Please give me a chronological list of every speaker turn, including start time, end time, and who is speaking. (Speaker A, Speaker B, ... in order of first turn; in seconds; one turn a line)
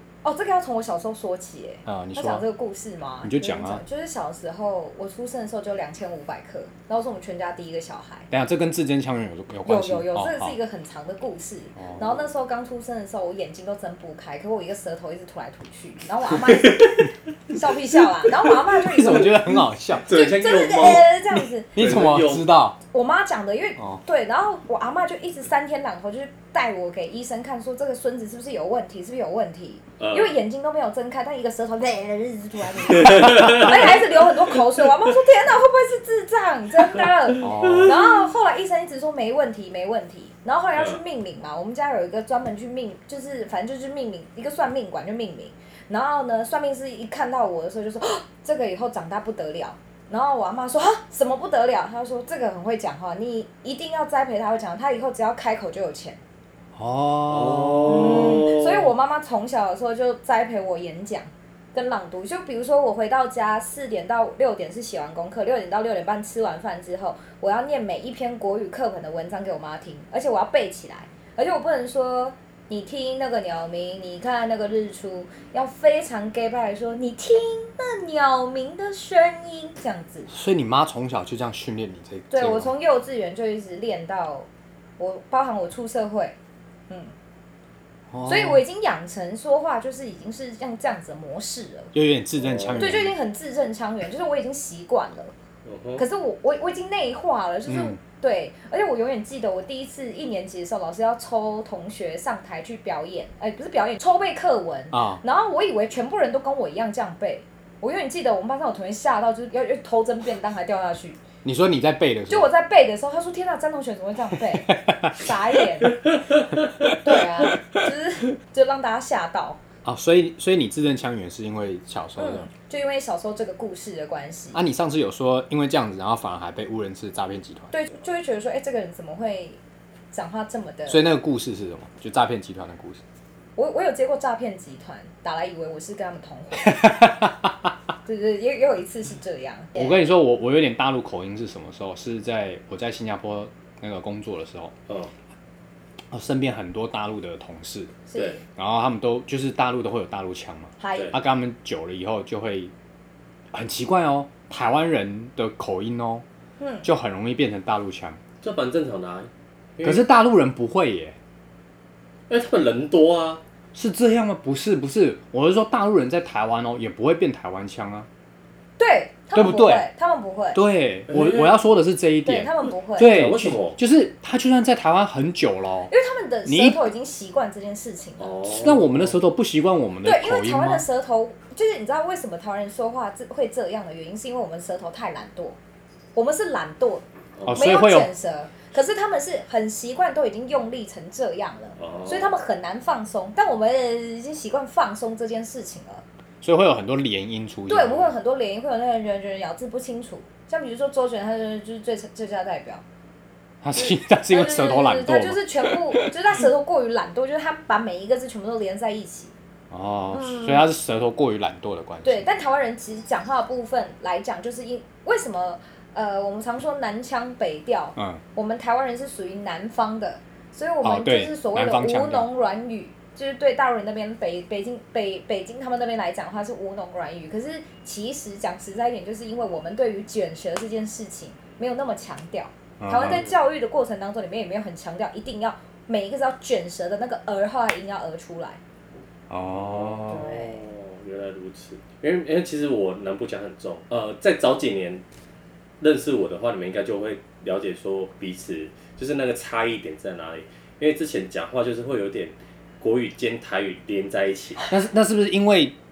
Speaker A: 0.2-8.3
Speaker B: 1.9-2.4
Speaker B: 3.2-3.8
Speaker B: 8.3-10.6
Speaker A: 9.7-19.4
Speaker B: 11.8-12.1
Speaker C: 16.4-17.1
Speaker B: 18.9-20.1
Speaker A: 20.1-21.7
Speaker C: 20.1-22.5
Speaker B: 21.8-22.8
Speaker A: 22.9-56.2
Speaker C: 30.0-30.4
Speaker C: 33.1-33.8
Speaker B: 37.4-37.9
Speaker C: 37.5-37.9
Speaker B: 56.8-58.4
Speaker C: 57.3-58.9
Speaker A: 57.8-80.3
Speaker B: 80.3-82.7
Speaker A: 82.3-86.4
Speaker B: 88.1-88.6
Speaker A: 88.3-91.9
Speaker B: 91.9-93.1
Speaker C: 92.4-93.0
Speaker A: 92.8-95.3
Speaker C: 95.6-96.0
Speaker A: 96.0-111.2
Speaker B: 97.7-98.0
Speaker B: 104.9-105.2
Speaker B: 111.4-112.5
Speaker A: 112.3-116.0
Speaker B: 114.6-115.2
Speaker B: 116.8-117.8
Speaker A: 117.0-119.6
Speaker B: 119.8-122.5
Speaker A: 122.2-124.6
Speaker B: 124.5-127.7
Speaker A: 127.7-129.6
Speaker A: 130.1-131.0
Speaker B: 130.9-133.0
Speaker A: 133.6-136.9
Speaker B: 136.6-137.7
Speaker A: 138.0-140.0
Speaker B: 139.8-144.7
Speaker B: 146.1-147.9
Speaker A: 148.1-148.4
Speaker C: 148.1-148.4
Speaker B: 148.6-152.7
Speaker A: 150.8-151.1
Speaker B: 153.5-156.2
Speaker A: 156.6-156.9
Speaker B: 156.8-158.2
Speaker C: 158.4-160.1
Speaker B: 159.8-161.2
Speaker C: 162.3-163.4
Speaker B: 163.8-168.1
Speaker A: 168.8-170.6
Speaker B: 169.3-169.9
Speaker B: 170.5-175.9
Speaker C: 171.1-171.5
Speaker A: 172.2-173.1
Speaker C: 173.0-173.8
Speaker A: 175.9-178.4
Speaker B: 176.5-176.8
Speaker C: 178.2-179.1
Speaker B: 178.5-180.8
Speaker A: 180.0-185.6
Speaker A: 186.1-196.0
Speaker C: 187.4-187.7
Speaker B: 187.5-188.1
Speaker C: 191.8-192.3
Speaker B: 196.4-198.1
Speaker A: 197.7-202.8
Speaker B: 203.6-206.1
Speaker A: 203.8-209.3
Speaker B: 209.7-212.3
Speaker A: 210.1-210.7
Speaker A: 212.0-238.6
Speaker B: 218.0-218.2
Speaker B: 220.8-222.3
Speaker B: 232.8-233.2
Speaker C: 233.0-233.4
Speaker B: 239.3-240.2
Speaker C: 239.5-245.0
Speaker A: 240.0-240.6
Speaker C: 245.8-254.7
Speaker B: 254.7-255.8